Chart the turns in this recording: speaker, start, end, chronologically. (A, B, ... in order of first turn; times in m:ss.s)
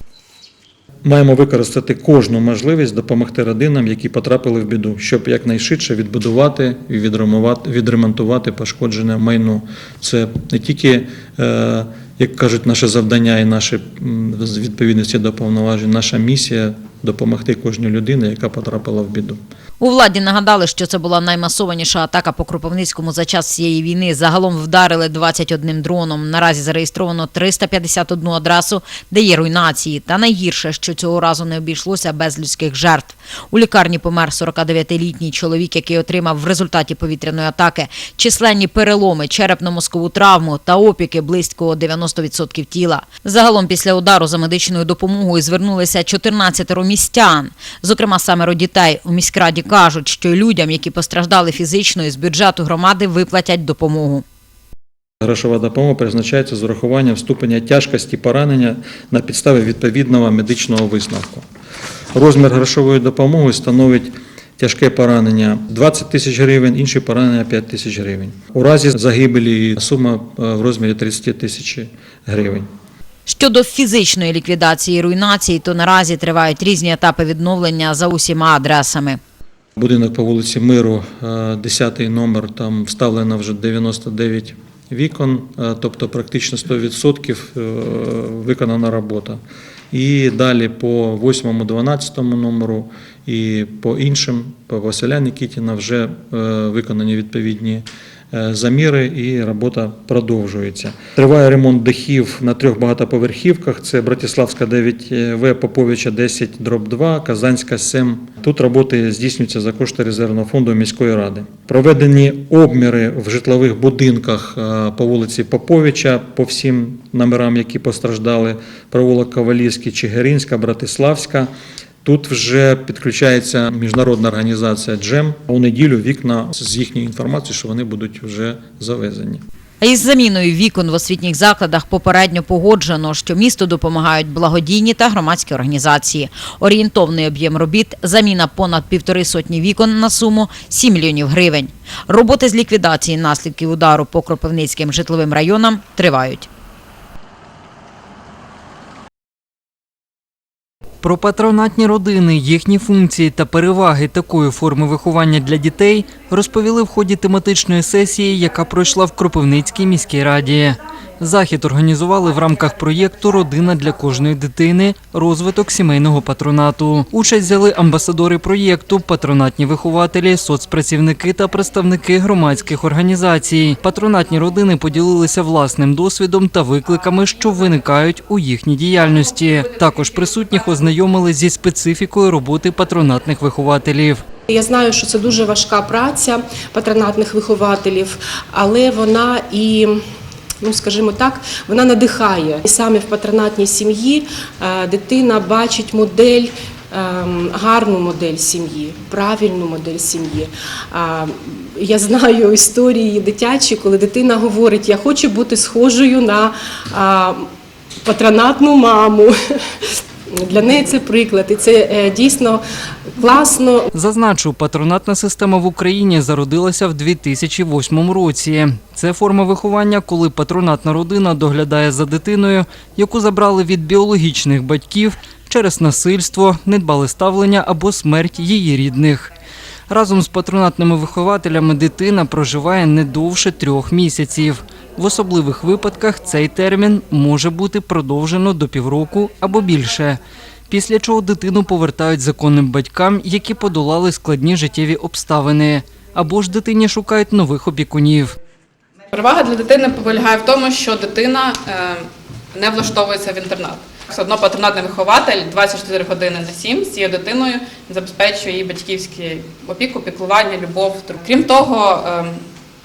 0:01.0-0:19.4 A
0:19.8-0:54.2 B
0:55.2-1:01.4 A
1:02.1-1:12.7 A
1:13.3-1:19.2 B
1:19.8-1:29.4 A
1:29.9-2:01.5 A
2:02.0-2:09.4 A
2:09.8-2:26.5 B
2:31.0-3:04.2 C
3:04.5-3:10.0 D
3:10.6-3:27.5 D
3:28.0-3:29.6 D
3:30.3-3:32.6 D
3:33.2-3:33.9 D
3:33.9-3:49.3 C
3:49.9-4:08.4 C
4:09.1-4:22.4 E